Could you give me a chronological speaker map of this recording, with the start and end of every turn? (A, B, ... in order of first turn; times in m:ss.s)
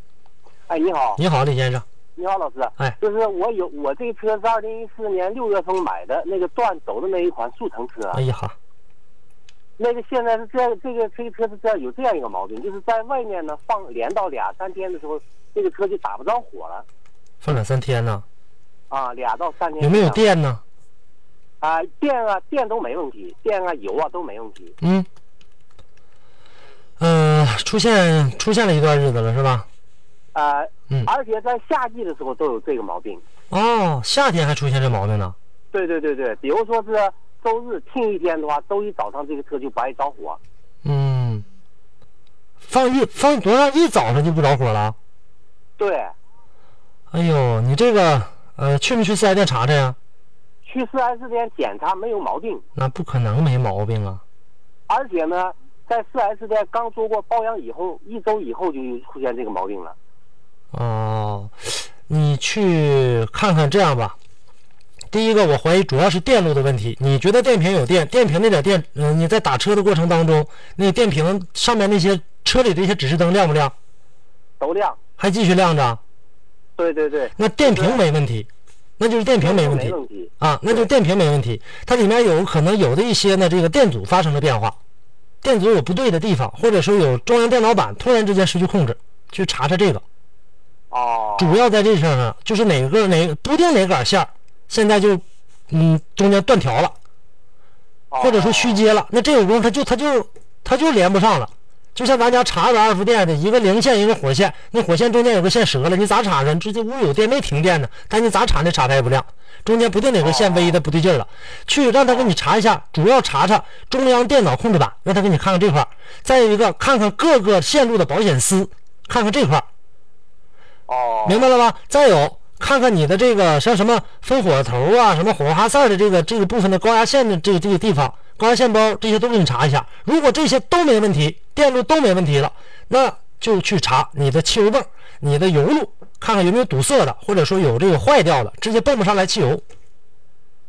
0:00.7-0:01.2 A
0:01.2-0:01.8 B
0:02.2-0:08.2 A
0:08.1-0:08.6 B
0:09.8-0:16.9 A
0:17.4-0:18.2 B
0:18.9-0:20.2 A
0:19.8-0:20.6 B
0:21.6-0:24.8 A
0:24.8-0:25.1 B
0:27.0-0:29.7 B
0:30.3-0:33.2 A
0:33.5-0:35.4 B
0:35.7-0:40.4 A
0:40.8-0:41.5 B
0:42.7-0:45.0 B
0:45.8-0:46.1 A
0:47.1-0:50.0 B
0:50.6-0:52.6 A
0:52.8-0:54.2 B
0:54.9-1:00.0 A
1:00.7-1:04.2 B
1:05.1-1:13.7 B
1:14.6-1:15.0 A
1:15.2-1:16.0 B
1:16.8-1:18.0 A
1:17.4-1:24.8 B
1:19.4-1:20.3 A
1:25.4-1:30.0 B
1:30.9-1:31.6 A
1:31.4-1:37.0 B
1:38.1-1:38.8 A
1:38.2-1:59.7 B
1:50.2-1:50.8 A
1:52.1-1:52.3 A
2:00.9-2:01.5 A
2:01.3-2:19.6 B